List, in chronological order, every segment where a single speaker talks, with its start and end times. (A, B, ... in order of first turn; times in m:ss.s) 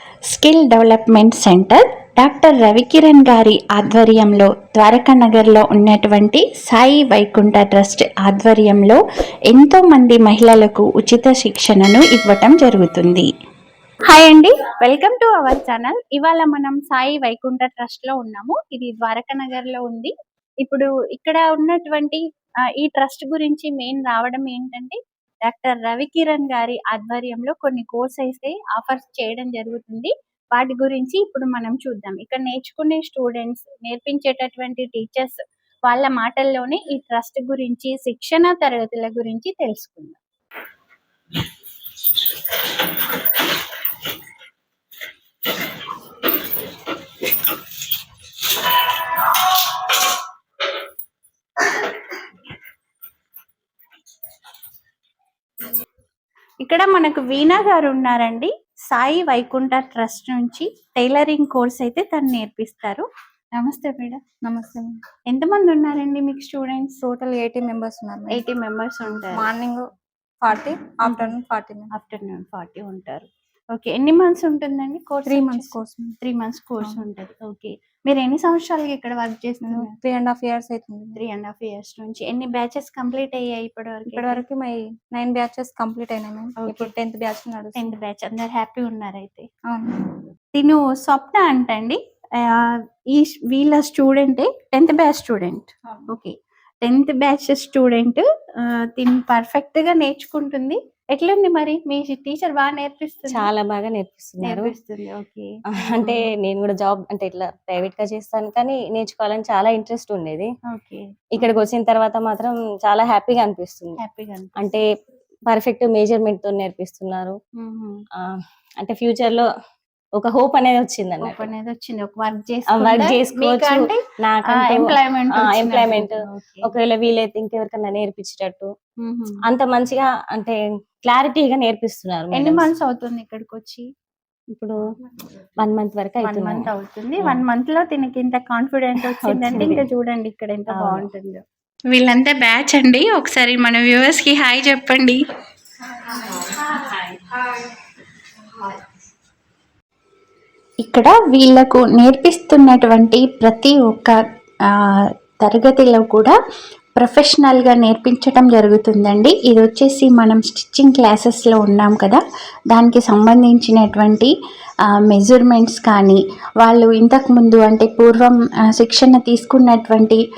0:00.3-0:13.3 A
0:14.1-0:22.2 A
0:22.8-0:40.2 A
0:56.6-1:04.2 A
1:04.4-1:05.0 B
1:05.3-1:07.0 A
1:07.0-1:08.4 B
1:08.3-1:09.5 A
1:09.3-1:09.9 B
1:10.4-1:11.9 B
1:11.0-1:11.3 A
1:11.9-1:19.9 A
1:15.3-1:16.2 B
1:19.6-1:21.2 B
1:21.2-1:24.4 A
1:24.1-1:27.8 B
1:26.6-1:26.9 A
1:27.8-1:29.5 A
1:29.7-1:30.1 B
1:30.6-1:43.5 A
1:43.3-1:44.7 C
1:44.4-1:46.2 A
1:45.8-1:50.5 C
1:50.7-1:51.6 A
1:51.4-1:54.0 C
1:54.0-1:54.8 A
1:55.5-1:57.4 C
1:57.6-1:58.0 A
1:58.2-1:59.5 C
2:00.2-2:01.5 C
2:01.2-2:04.0 A
2:02.7-2:06.1 C
2:04.5-2:06.8 A
2:06.7-2:08.7 C
2:09.0-2:09.4 A
2:09.5-2:12.7 C
2:12.3-2:13.9 A
2:15.6-2:16.7 C
2:16.2-2:25.2 A
2:19.1-2:19.8 C
2:20.8-2:21.0 C
2:30.8-2:34.2 A
2:34.7-2:36.4 A
2:37.0-2:44.3 A
2:45.1-2:50.2 A